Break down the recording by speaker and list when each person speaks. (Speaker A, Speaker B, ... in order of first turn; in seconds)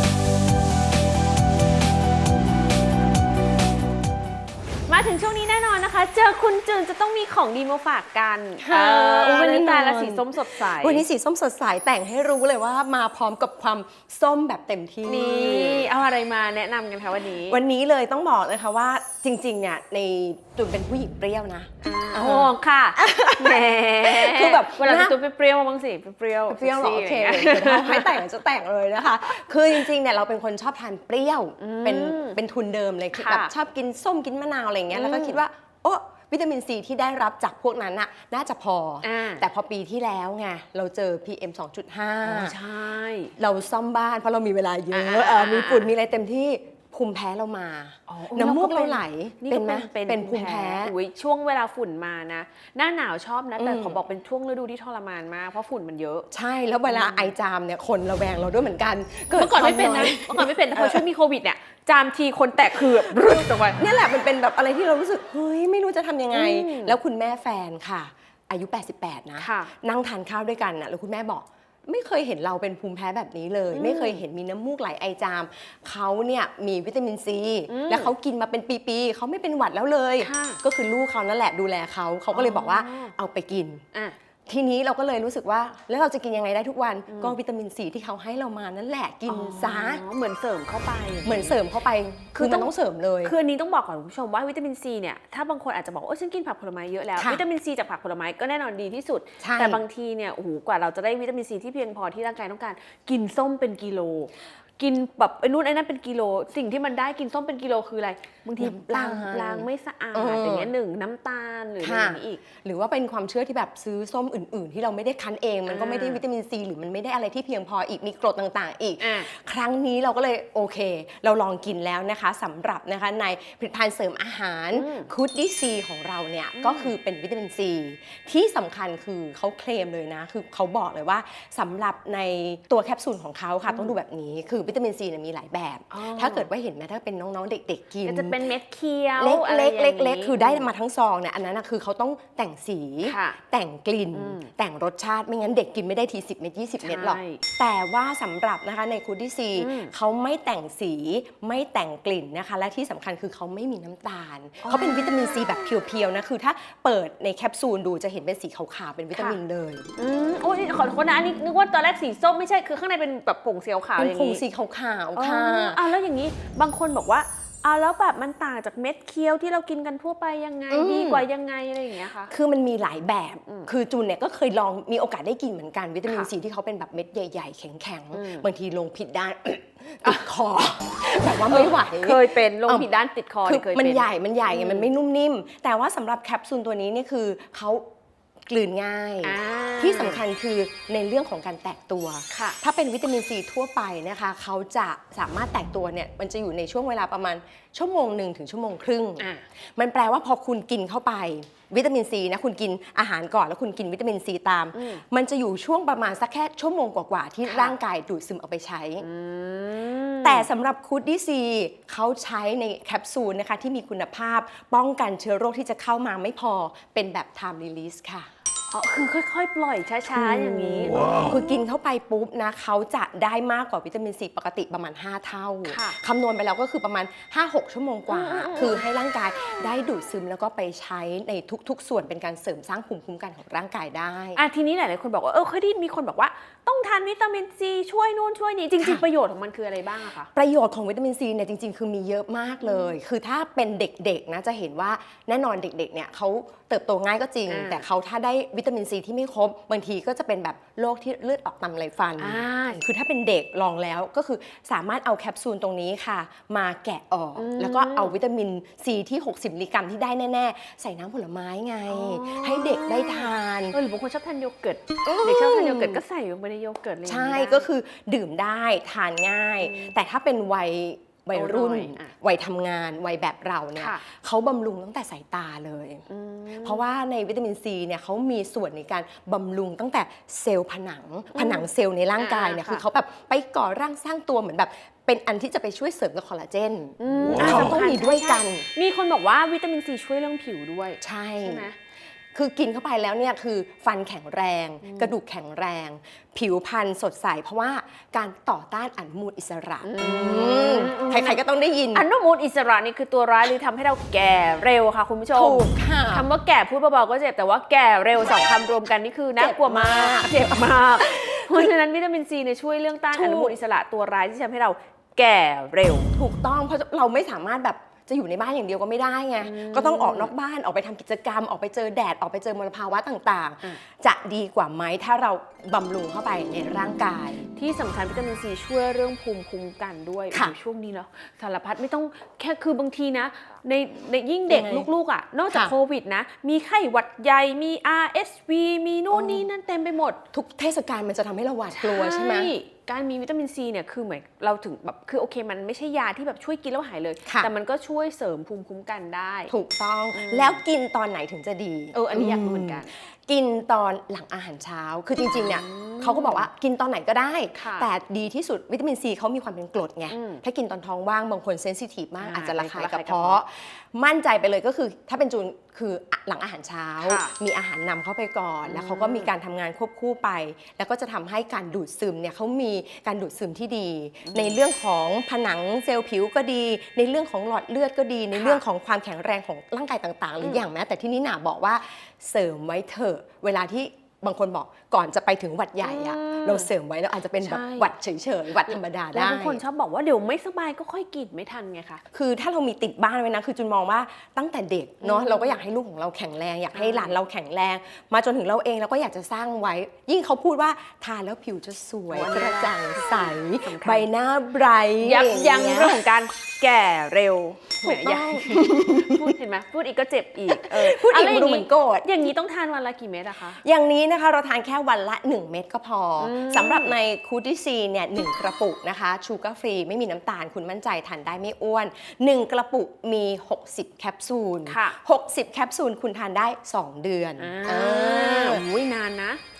Speaker A: 4.9-11.0, 15.0-17.6, 21.8-28.2, 31.6-32.4, 33.1-33.5, 34.9-35.4, 39.0-39.4, 42.2-43.3, 44.9-45.9, 48.1-56.3, 56.9-57.3, 59.3-63.8, 66.3-67.0, 69.4-69.7, 73.7-74.2, 77.7-78.1, 80.2-80.6, 82.3-83.1, 87.1-87.3, 89.3-91.5, 92.3-92.7, 93.2-112.4, 115.7-116.2, 119.0-119.3, 124.7-125.1, 126.6-126.9, 133.7-133.9, 135.9-136.5, 138.0-140.7, 143.0-143.4, 144.1-144.5, 146.8-147.4, 149.6-149.9, 154.6-155.2, 160.0-164.4, 165.2-172.3, 178.1-178.4, 181.5-184.9, 189.2-190.2, 192.3-192.6, 204.7-205.0, 207.4-207.8, 209.0-210.5, 218.7-221.5, 225.6-226.0, 228.1-228.8, 234.3-240.3, 242.6-242.9, 247.5-247.8, 252.2-252.8, 257.4-258.1, 261.9-267.6, 269.6-269.9, 271.3-272.1, 276.1-276.8, 281.3-282.8, 287.0-291.8, 294.8-295.1, 299.8-301.4, 301.9-316.1, 319.4-320.3, 327.6-340.2, 341.8-349.5, 350.1-350.6, 351.9-352.9, 355.3-356.5, 357.5-357.9, 360.1-360.4, 362.2-363.4, 367.0-367.3, 368.6-369.3, 374.2-374.6, 378.3-378.6, 385.8-386.7, 387.4-387.9, 388.6-392.0, 395.0-395.6, 396.7-397.2, 402.1-404.1, 405.0-413.6, 416.2-416.9, 424.6-424.9, 427.4-429.4
Speaker B: 8.6-15.9, 17.5-25.1, 26.5-42.5, 43.4-50.9, 53.6-54.0, 56.3-61.0, 62.8-63.1, 63.8-83.8, 84.5-90.0, 91.2-93.3, 97.2-97.4, 99.4-99.8, 108.6-110.7, 111.8-138.4, 139.2-159.9, 164.0-165.8, 170.7-171.2, 172.3-182.9, 183.4-187.8, 188.5-209.1, 210.2-218.3, 220.1-234.4, 240.3-263.8, 265.0-266.0, 267.1-276.0, 276.6-288.6, 291.0-291.6, 292.3-302.1, 305.3-306.2, 309.4-311.7, 313.1-313.5, 316.1-327.4, 334.5-334.9, 339.1-339.4, 340.3-342.5, 349.5-389.6, 392.1-406.0, 407.8-409.4, 410.5-412.3, 413.6-428.6